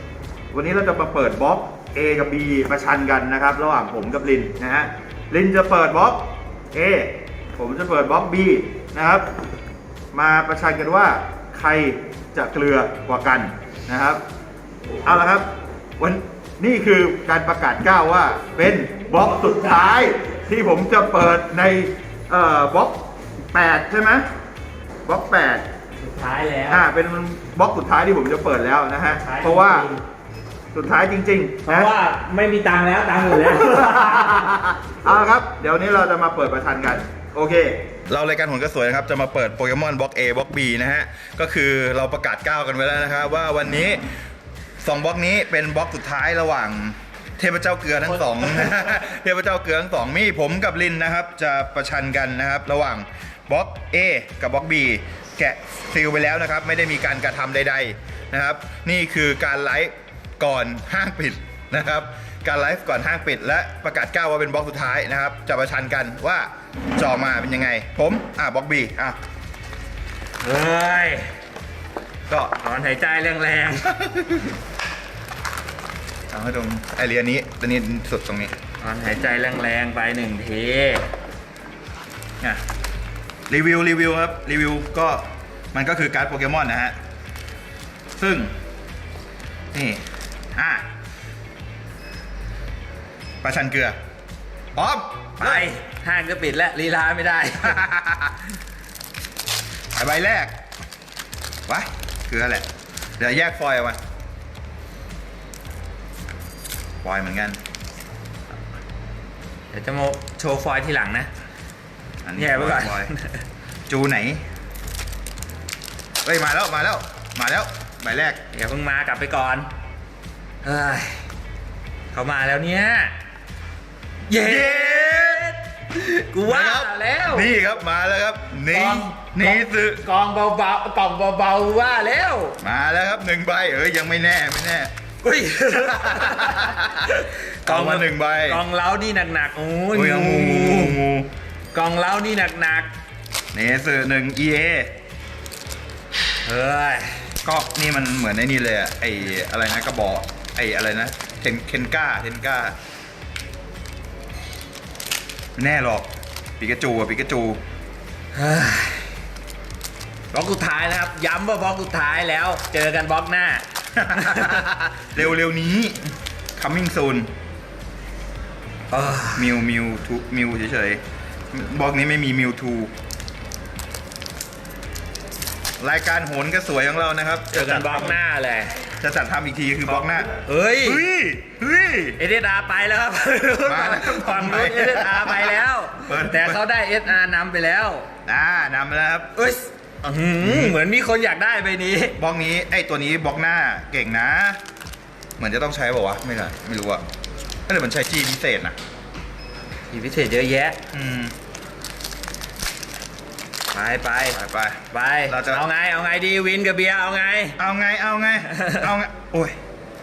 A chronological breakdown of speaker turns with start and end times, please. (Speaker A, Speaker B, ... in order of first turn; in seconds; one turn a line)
Speaker A: 0.5-9.2
Speaker A: 10.1-14.2
Speaker A: 15.0-15.5
Speaker A: 16.0-24.3
Speaker A: 25.1-25.6
Speaker B: 26.0-26.9
Speaker A: 26.7-29.9
Speaker B: 29.1-30.0
Speaker A: 30.7-31.9
Speaker B: 31.6-34.5
Speaker A: 33.5-44.1
Speaker A: 44.8-69.2
Speaker B: 70.4-71.3
Speaker B: 72.6-73.9
Speaker A: 73.8-74.5
Speaker A: 76.3-78.5
Speaker B: 78.8-81.1
Speaker A: 83.5-86.9
Speaker A: 88.2-88.5
Speaker A: 89.7-90.0
Speaker A: 90.5-90.8
Speaker A: 93.4-94.0
Speaker A: 94.8-95.7
Speaker B: 95.4-97.8
Speaker A: 97.6-98.4
Speaker A: 100.0-100.5
Speaker A: 101.7-102.7
Speaker A: 103.2-104.0
Speaker A: 107.0-107.6
Speaker B: 109.7-111.3
Speaker A: 112.2-113.1
Speaker B: 112.3-113.4
Speaker A: 113.9-114.4
Speaker A: 116.2-118.4
Speaker B: 118.5-119.7
Speaker B: 120.6-121.2
Speaker B: 122.1-123.1
Speaker B: 124.3-127.5
Speaker A: 124.3-125.5
Speaker A: 126.4-130.0
Speaker B: 128.7-132.6
Speaker A: 132.6-134.9
Speaker B: 135.2-141.0
Speaker A: 135.7-137.1
Speaker A: 137.6-138.6
Speaker A: 139.9-141.3
Speaker B: 141.7-142.9
Speaker A: 143.5-144.9
Speaker B: 146.4-147.2
Speaker A: 147.4-152.7
Speaker A: 155.6-157.6
Speaker B: 158.3-159.1
Speaker B: 160.3-164.7
Speaker A: 163.9-166.0
Speaker A: 166.6-167.3
Speaker B: 168.9-169.6
Speaker A: 169.3-171.0
Speaker A: 171.5-172.9
Speaker A: 175.8-178.2
Speaker B: 177.5-178.7
Speaker A: 179.0-180.3
Speaker B: 180.3-181.0
Speaker A: 180.8-182.2
Speaker B: 182.2-188.1
Speaker A: 183.6-186.6
Speaker A: 188.2-189.3
Speaker B: 189.3-192.2
Speaker A: 190.4-190.8
Speaker A: 192.2-194.6
Speaker A: 195.4-197.0
Speaker A: 197.7-198.8
Speaker B: 199.9-200.8
Speaker A: 200.9-201.3
Speaker B: 203.7-204.4
Speaker A: 204.3-205.7
Speaker B: 204.9-207.6
Speaker A: 207.6-209.6
Speaker B: 208.5-208.8